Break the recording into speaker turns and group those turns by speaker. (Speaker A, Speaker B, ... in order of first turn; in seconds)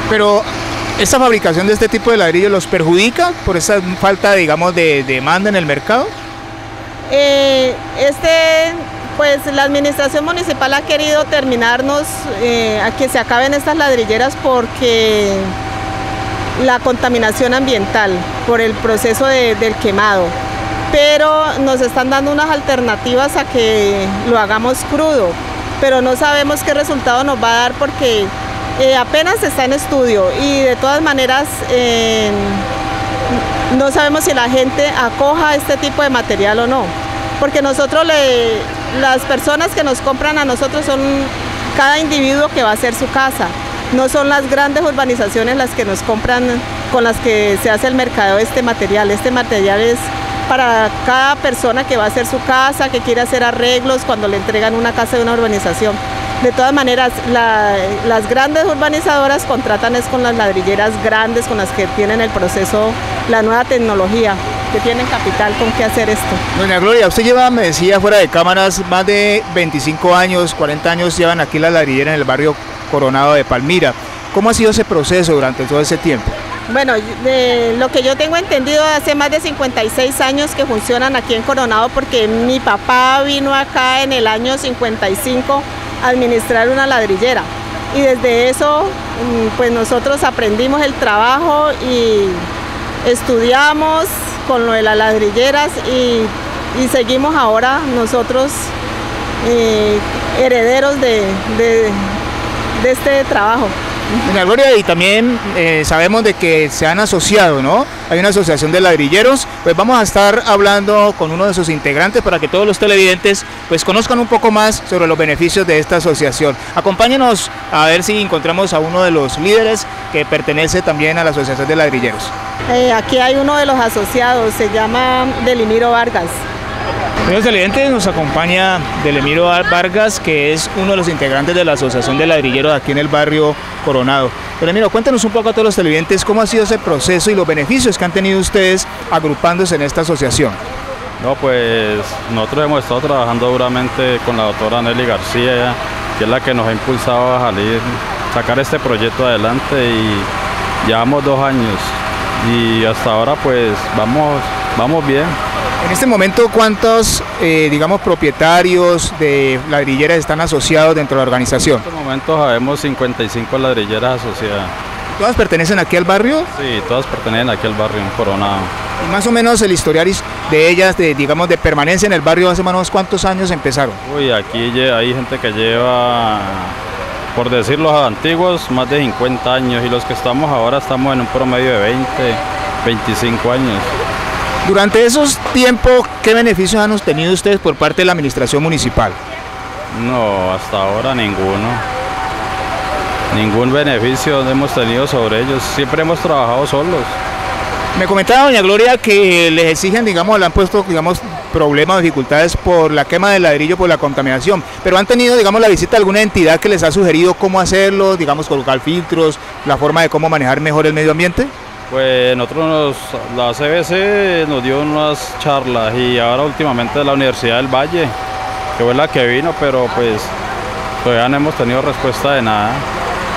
Speaker A: 0.1-6.1, 66.5-76.3, 104.2-122.3, 127.3-140.6, 155.8-161.8, 165.2-166.5, 169.0-174.0, 184.6-189.2, 197.9-211.5
Speaker B: 7.1-15.5, 16.6-20.3, 20.9-32.6, 33.3-66.4, 76.7-92.4, 93.0-98.7, 99.4-102.2, 102.8-103.8, 122.7-126.4
Speaker C: 141.2-150.3, 150.8-155.3, 161.8-164.7, 166.5-168.7, 174.0-176.8, 177.3-183.9, 189.9-191.8, 193.3-197.1, 211.9-218.1, 218.8-220.3, 221.0-222.8